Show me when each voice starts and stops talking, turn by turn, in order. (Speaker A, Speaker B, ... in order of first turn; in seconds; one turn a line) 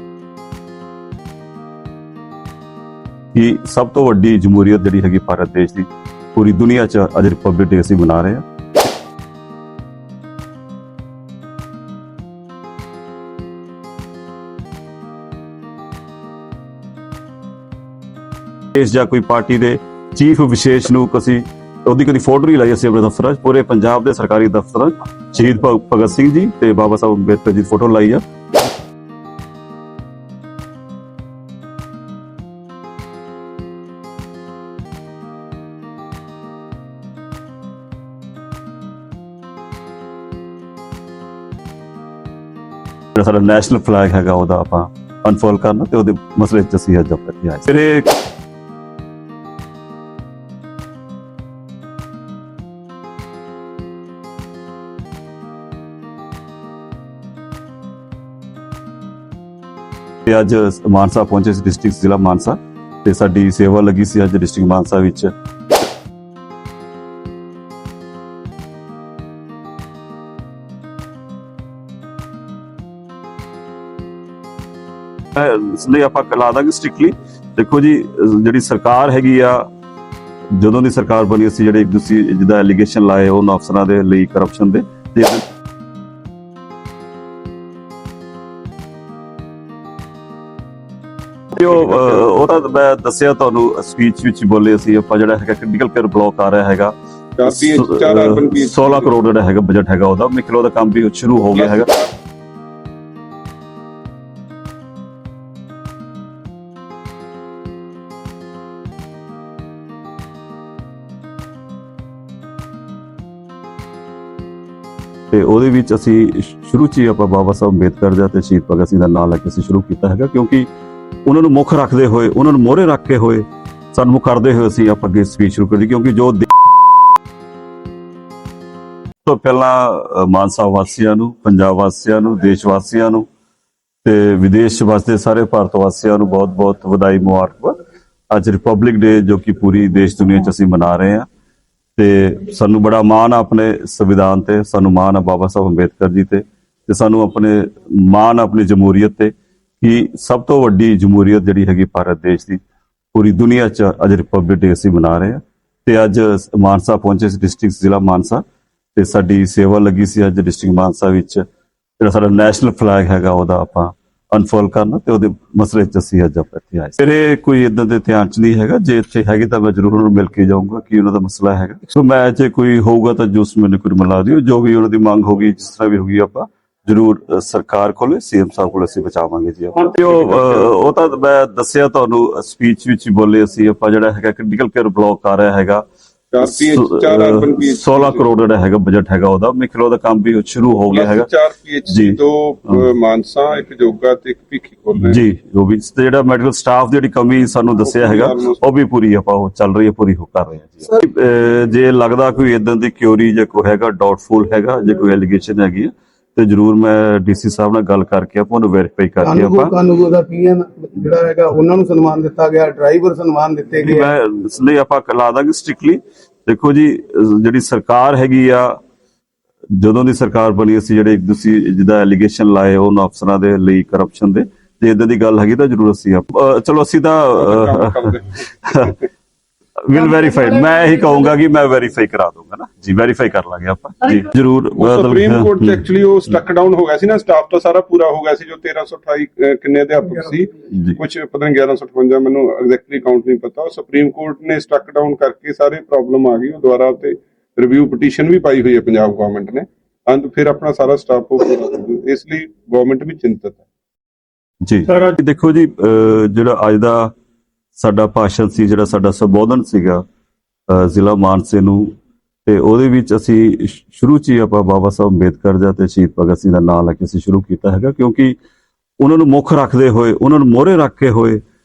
Speaker A: 3.4-8.4
Speaker A: 18.8-28.2
Speaker A: 43.2-48.1
Speaker A: 60.3-65.3
Speaker A: 75.3-79.7
Speaker A: 80.6-85.4
Speaker A: 91.5-96.9
Speaker B: 97.4-99.1
Speaker A: 97.5-101.9
Speaker B: 101.5-102.1
Speaker A: 115.3-120.7
Speaker A: 121.3-126.5
Speaker A: 129.2-133.3
Speaker A: 134.0-137.8
Speaker A: 138.3-141.3
Speaker A: 142.0-152.6
Speaker A: 153.1-158.4
Speaker A: 158.9-161.4
Speaker A: 162.0-185.8
Speaker B: 180.0-180.6
Speaker B: 186.3-188.3
Speaker A: 186.4-191.3
Speaker B: 190.9-195.2
Speaker A: 191.9-192.2
Speaker A: 195.0-209.7
Speaker B: 197.8-198.6
Speaker C: 209.2-214.1
Speaker A: 213.8-218.8
Speaker A: 219.8-229.0
Speaker B: 227.4-228.9
Speaker A: 229.8-235.8
Speaker B: 234.8-253.6
Speaker A: 254.6-257.1
Speaker A: 257.8-260.0
Speaker A: 260.7-261.9
Speaker A: 262.4-268.4
Speaker A: 269.0-271.4